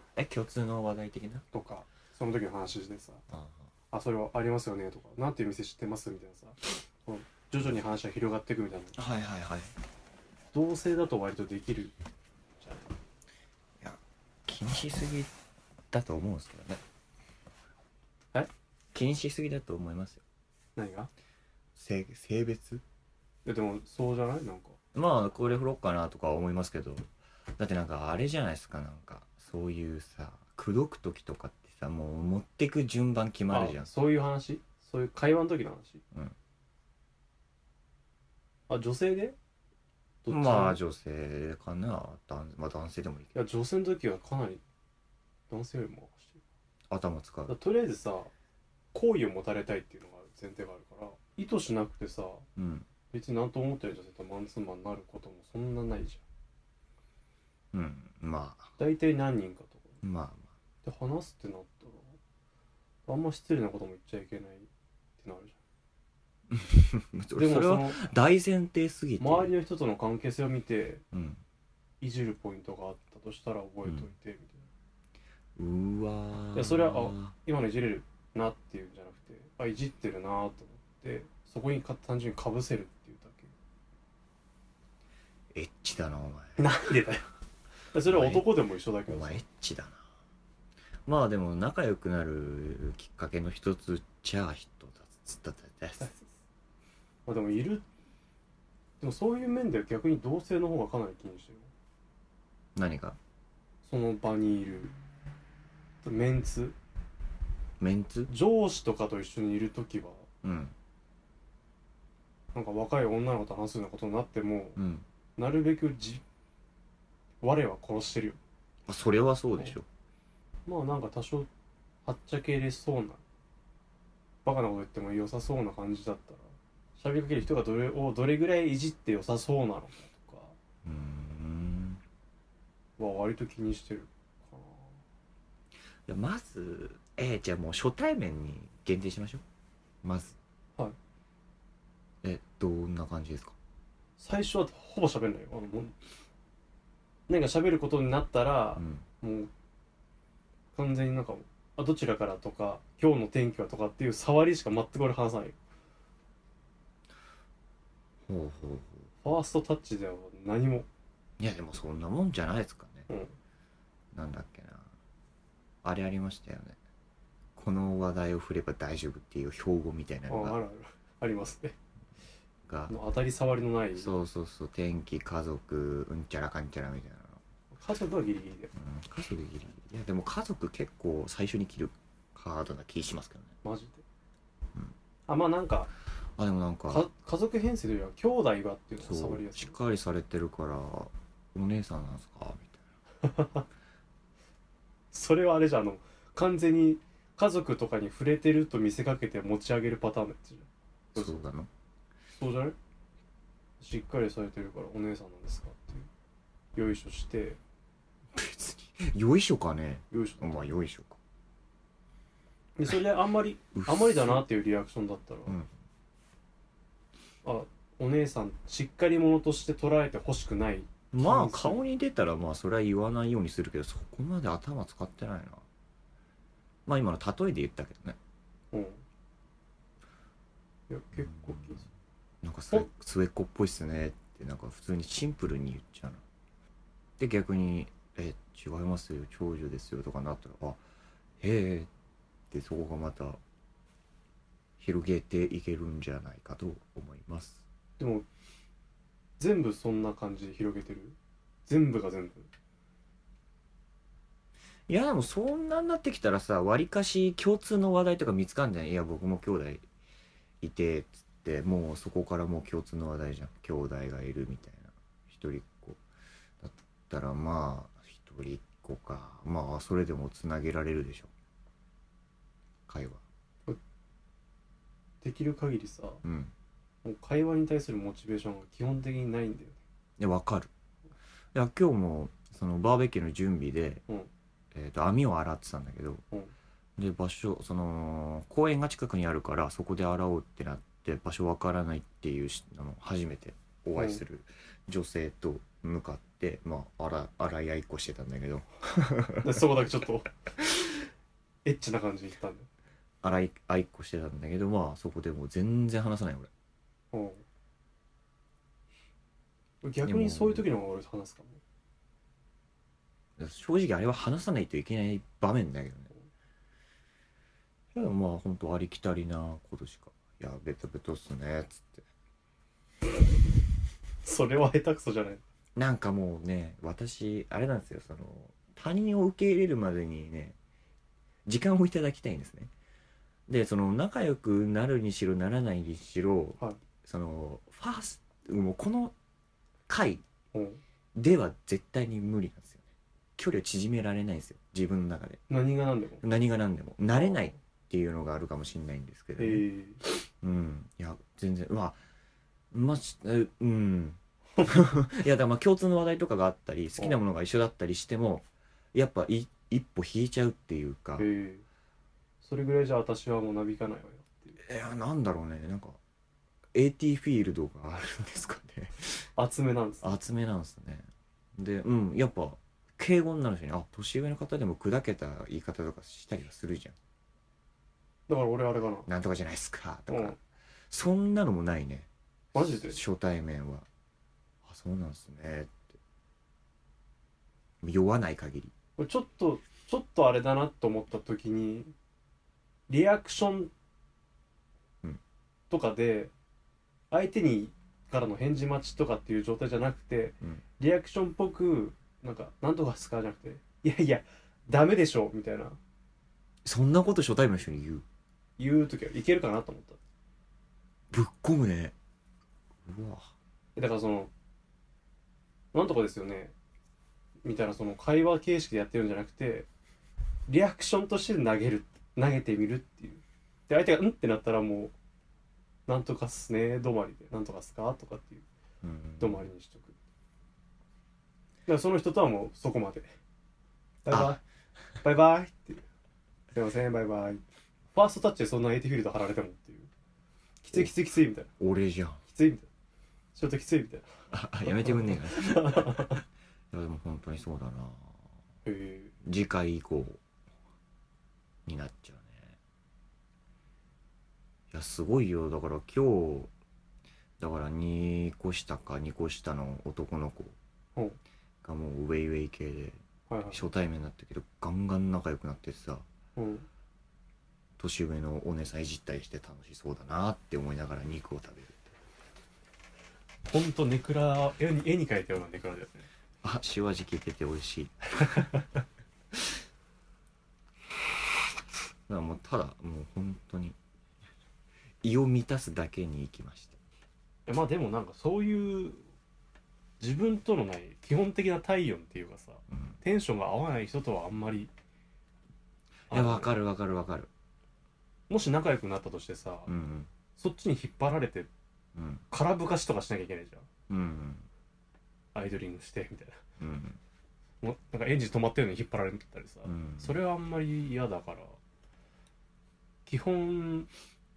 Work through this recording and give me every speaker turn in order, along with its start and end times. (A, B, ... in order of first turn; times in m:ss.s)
0:00.2-0:01.5 A
0:01.5-0:03.2 B
0:03.3-0:03.7 A
0:03.9-0:09.0 B
0:09.0-0:09.7 A
0:10.5-0:11.9 B
0:12.6-0:12.9 B
0:13.8-0:15.3 A
0:15.9-0:16.8 A
0:18.9-0:20.2 A
0:20.8-0:21.1 B
0:21.8-0:22.8 A
0:23.4-0:24.8 B
0:24.9-0:33.9 A
0:33.5-0:36.0 B
0:38.7-0:39.4 B
0:40.2-0:40.8 B
0:40.3-0:43.3 A
0:43.3-0:44.6 B
0:45.5-0:46.4 B
0:46.9-0:47.6 A
0:47.5-0:48.3 B
0:48.9-0:52.4 B
0:52.6-0:52.9 A
0:53.1-0:56.2 B
0:57.7-0:58.7 A
0:58.8-1:00.0 B
1:00.0-1:00.5 A
1:00.8-1:02.2 B
1:03.1-1:05.6 B
1:06.5-1:09.5 A
1:07.4-1:08.1 B
1:09.2-1:11.0 B
1:11.1-1:11.4 A
1:12.0-1:14.7 B
1:15.6-1:17.3 A
1:16.5-1:23.5 B
1:25.5-1:26.6 A
1:26.6-1:27.3 B
1:27.9-1:29.4 B
1:28.1-1:28.5 A
1:29.1-1:30.0 A
1:31.1-1:36.2 A
1:37.3-1:37.9 B
1:39.0-1:41.7 B
1:42.8-1:43.2 A
1:43.8-1:44.9 B
1:46.0-1:46.8 B
1:47.8-1:48.3 A
1:48.3-1:50.3 B
1:50.4-1:50.7 A
1:52.5-1:54.8 B
1:54.8-1:55.0 A
1:55.4-1:56.2 B
1:57.4-1:58.4 B
1:58.9-1:59.8 A
2:00.7-2:01.5 B
2:02.0-2:03.2 B
2:04.4-2:10.6 B
2:10.8-2:12.0 A
2:13.0-2:15.0 B
2:16.1-2:19.4 A
2:20.0-2:20.4 A
2:22.2-2:23.6 A
2:24.2-2:26.0 B
2:27.3-2:29.5 B
2:28.8-2:29.0 A
2:30.8-2:35.6 B
2:38.3-2:39.1 A
2:39.2-2:40.9 B
2:41.4-2:43.1 A
2:43.1-2:43.4 B
2:44.1-2:44.9 A
2:45.8-2:46.8 A
2:47.6-2:50.6 A
2:50.3-2:51.8 B
2:52.7-2:53.0 A
2:52.9-2:54.1 B
2:54.0-2:57.4 A
2:57.7-2:58.7 B
2:58.8-3:03.5 A
3:03.6-3:04.0 B
3:05.3-3:05.9 B
3:06.4-3:07.1 A
3:06.9-3:09.8 B
3:09.0-3:12.8 A
3:13.2-3:13.6 B
3:15.1-3:21.4 B
3:21.2-3:21.7 A
3:22.4-3:22.8 B
3:23.8-3:26.1 B
3:26.8-3:27.6 B
3:28.4-3:31.2 A
3:30.1-3:30.7 B
3:32.8-3:35.6 B
3:33.8-3:34.4 A
3:37.4-3:41.8 B
3:41.1-3:45.6 A
3:46.9-3:48.2 A
3:48.7-3:49.0 B
3:50.9-3:51.9 B
3:51.2-3:51.8 A
3:52.4-3:56.2 A
3:57.2-4:00.8 A
4:01.4-4:01.9 A
4:02.5-4:03.4 A
4:04.8-4:07.6 A
4:08.0-4:08.3 B
4:09.4-4:12.5 B
4:14.9-4:19.8 A
4:20.6-4:26.0 A
4:26.6-4:31.3 A
4:32.9-4:33.2 A
4:35.2-4:36.2 B
4:36.2-4:36.5 A
4:37.0-4:39.8 B
4:40.2-4:40.7 A
4:41.5-4:44.0 A
4:44.7-4:46.2 A
4:47.0-4:59.6 A
4:54.0-4:54.2 B
4:59.4-5:00.9 B
5:01.6-5:02.7 B
5:03.2-5:06.5 A
5:07.1-5:07.4 B
5:09.8-5:11.6 B
5:10.0-5:10.7 A
5:13.4-5:16.1 A
5:17.9-5:22.0 A
5:24.2-5:25.4 B
5:25.8-5:30.6 A
5:31.5-5:32.7 A
5:33.5-5:39.1 A
5:39.9-5:40.2 A
5:40.5-5:40.8 B
5:41.2-5:42.8 A
5:43.4-5:45.4 A
5:45.5-5:46.2 B
5:46.2-5:49.6 A
5:47.2-5:47.6 B
5:49.4-5:50.0 B
5:50.4-5:52.0 A
5:52.7-6:01.3 A
6:01.2-6:01.6 B
6:02.4-6:04.6 B
6:04.6-6:06.0 A
6:06.7-6:09.3 A
6:09.4-6:10.1 B
6:10.0-6:17.0 A
6:18.3-6:19.1 B
6:19.1-6:23.9 A
6:20.1-6:20.4 B
6:22.5-6:23.0 B
6:24.6-6:25.9 A
6:27.8-6:28.7 A
6:29.0-6:31.9 B
6:32.9-6:33.7 B
6:35.7-6:36.3 B
6:37.1-6:45.8 B
6:46.6-6:48.0 A
6:48.6-6:50.0 B
6:51.1-6:51.9 A
6:52.8-6:53.3 A
6:53.8-6:54.3 B
6:55.7-6:56.5 B
6:57.4-6:59.7 B
7:00.5-7:04.9 B
7:05.9-7:08.5 B
7:08.8-7:09.5 A
7:09.2-7:10.0 B
7:11.7-7:13.1 B
7:14.0-7:14.4 B
7:14.1-7:14.4 A
7:15.0-7:15.8 B
7:16.5-7:17.4 B
7:17.9-7:19.9 B
7:20.6-7:21.5 B
7:21.6-7:22.2 A
7:22.3-7:22.7 B
7:23.4-7:24.1 B
7:24.3-7:28.2 A
7:24.7-7:26.2 B
7:28.6-7:29.1 B
7:29.2-7:30.2 A
7:31.7-7:32.5 A
7:34.7-7:36.5 A
7:37.4-7:40.6 A
7:41.6-7:43.0 A
7:43.3-7:43.6 B
7:43.5-7:46.0 A
7:46.4-7:46.7 B
7:47.8-7:51.9 A
7:53.5-7:56.1 B
7:56.4-7:58.6 A
8:02.1-8:03.8 A
8:05.0-8:06.8 A
8:07.5-8:09.0 B
8:10.0-8:14.7 B
8:16.1-8:17.3 A
8:16.1-8:16.6 B
8:18.3-8:19.7 B
8:19.7-8:20.1 A
8:20.4-8:21.5 B
8:22.0-8:22.2 A
8:22.3-8:23.7 B
8:23.9-8:24.5 A
8:25.4-8:26.4 B
8:26.6-8:27.0 A
8:27.6-8:31.6 B
8:29.6-8:30.2 A
8:33.1-8:33.9 B